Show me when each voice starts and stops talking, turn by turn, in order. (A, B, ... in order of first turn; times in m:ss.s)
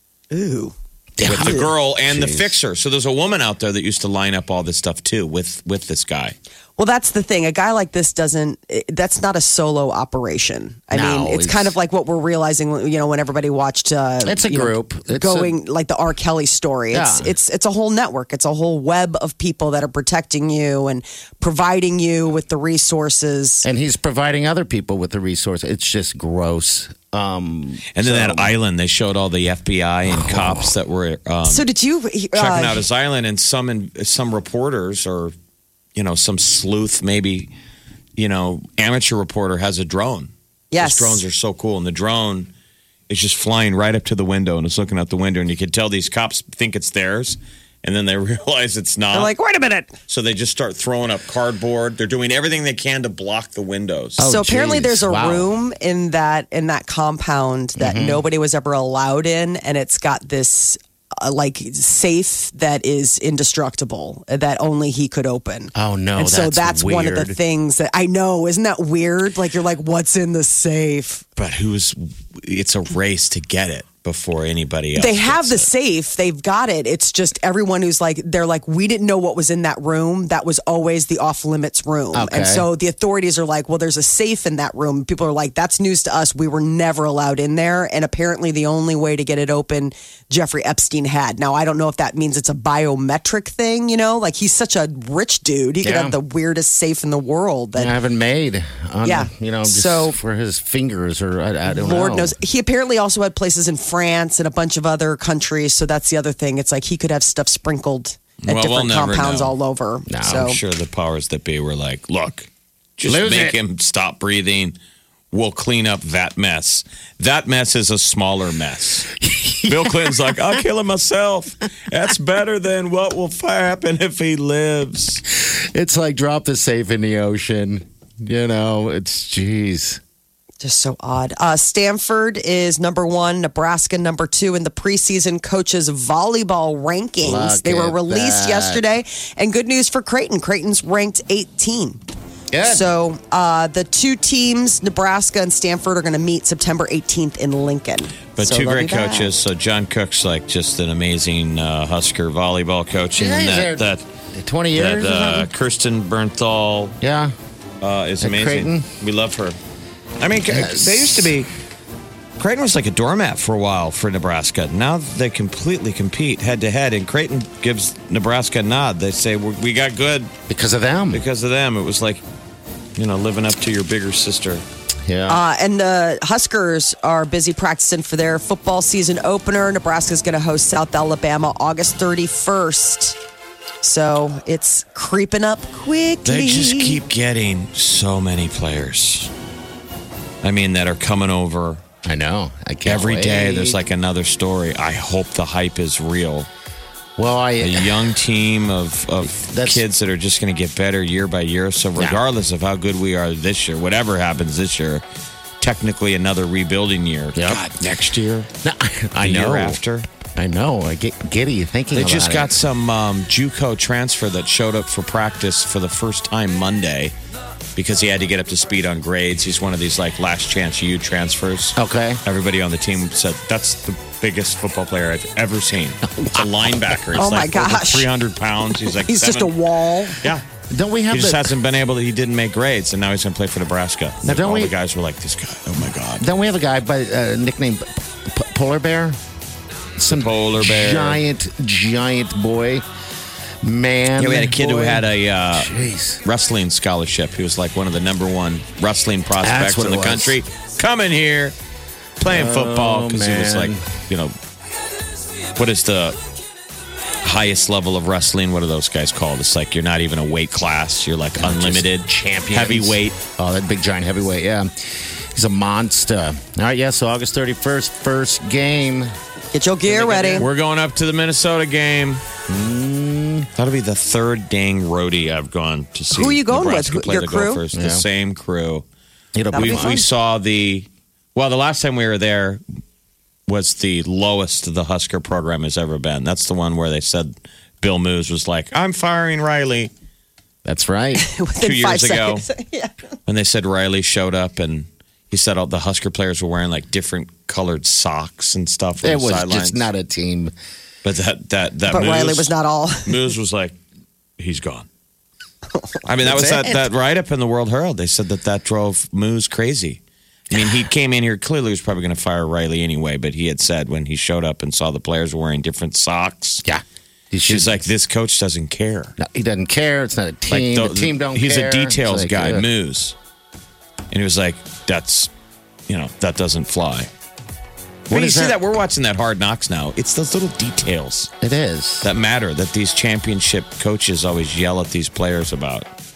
0:00.3-0:00.7 A
0:01.2-0:02.5 B
0:01.2-0:06.4 C
0:06.8-0:23.7 A
0:10.9-0:11.7 B
0:14.2-0:15.5 B
0:16.9-0:17.4 B
0:23.6-0:28.5 B
0:27.9-0:31.7 C
0:30.1-0:30.6 B
0:31.4-0:32.8 A
0:32.3-0:35.3 C
0:35.9-0:37.5 C
0:38.2-0:42.5 C
0:40.7-0:41.2 A
0:43.1-0:49.3 C
0:49.1-0:49.9 A
0:50.1-0:54.2 C
0:54.2-0:55.5 B
0:54.2-1:11.2 A
0:57.8-0:58.2 B
1:05.7-1:07.4 B
1:11.4-1:15.7 C
1:14.9-1:37.9 A
1:22.1-1:22.7 B
1:35.8-1:36.2 B
1:37.7-1:42.3 B
1:39.0-1:40.2 A
1:41.6-1:50.6 A
1:48.4-1:49.5 C
1:50.1-1:50.5 B
1:50.2-1:54.8 C
1:53.0-1:53.6 B
1:55.3-1:59.1 C
1:59.2-2:00.2 B
1:59.6-2:05.2 C
2:05.4-2:10.0 B
2:10.6-2:22.0 A
2:17.2-2:18.8 B
2:22.5-2:22.9 B
2:22.6-2:29.3 A
2:28.4-2:34.0 C
2:33.2-2:35.5 B
2:34.7-2:37.0 C
2:37.0-2:37.3 B
2:37.8-2:39.6 C
2:38.2-2:38.9 B
2:40.2-2:41.5 C
2:40.5-2:41.3 B
2:42.4-2:50.3 C
2:50.5-2:51.2 B
2:51.1-2:52.2 C
2:53.0-2:54.6 C
2:55.0-2:55.4 B
2:55.3-3:03.2 A
3:03.8-3:07.0 A
3:06.2-3:09.3 C
3:10.4-3:11.8 C
3:12.0-3:13.8 B
3:12.8-3:16.5 C
3:17.2-3:18.1 B
3:17.6-3:25.0 C
3:19.2-3:19.8 B
3:25.6-3:28.5 C
3:27.3-3:27.6 B
3:28.6-3:29.8 B
3:29.2-3:30.1 C
3:30.3-3:32.6 B
3:31.9-3:37.1 C
3:37.8-3:49.5 C
3:41.8-3:42.2 B
3:47.1-3:48.1 A
3:48.8-3:50.2 A
3:50.7-3:51.5 B
3:51.1-3:56.2 C
3:54.2-3:54.7 B
3:56.2-3:59.2 B
4:00.0-4:02.8 B
4:00.1-4:01.2 C
4:03.6-4:06.2 B
4:04.2-4:05.7 C
4:06.2-4:11.6 C
4:09.4-4:10.4 B
4:12.2-4:14.3 C
4:12.2-4:13.9 B
4:15.6-4:16.2 C
4:17.2-4:23.2 C
4:21.4-4:29.1 B
4:29.5-4:30.5 A
4:29.9-4:32.2 C
4:32.5-4:33.5 B
4:33.5-4:38.8 C
4:36.1-4:37.6 A
4:37.7-4:38.0 B
4:39.3-4:40.0 B
4:39.5-4:40.1 A
4:39.5-4:42.6 C
4:43.5-4:49.9 C
4:50.6-4:51.2 B
4:51.1-4:52.9 A
4:51.6-4:52.4 C
4:53.2-4:59.9 C
4:59.0-5:00.5 B
5:01.0-5:02.5 C
5:01.9-5:03.3 A
5:03.0-5:03.7 C
5:04.4-5:04.9 C
5:06.0-5:16.6 C
5:06.2-5:06.8 B
5:16.6-5:17.8 B
5:17.5-5:19.1 C
5:19.2-5:22.7 B
5:20.5-5:23.1 C
5:24.1-5:25.3 C
5:25.9-5:27.1 C
5:28.1-5:28.6 B
5:28.1-5:31.3 C
5:31.4-5:32.1 B
5:32.0-5:35.9 C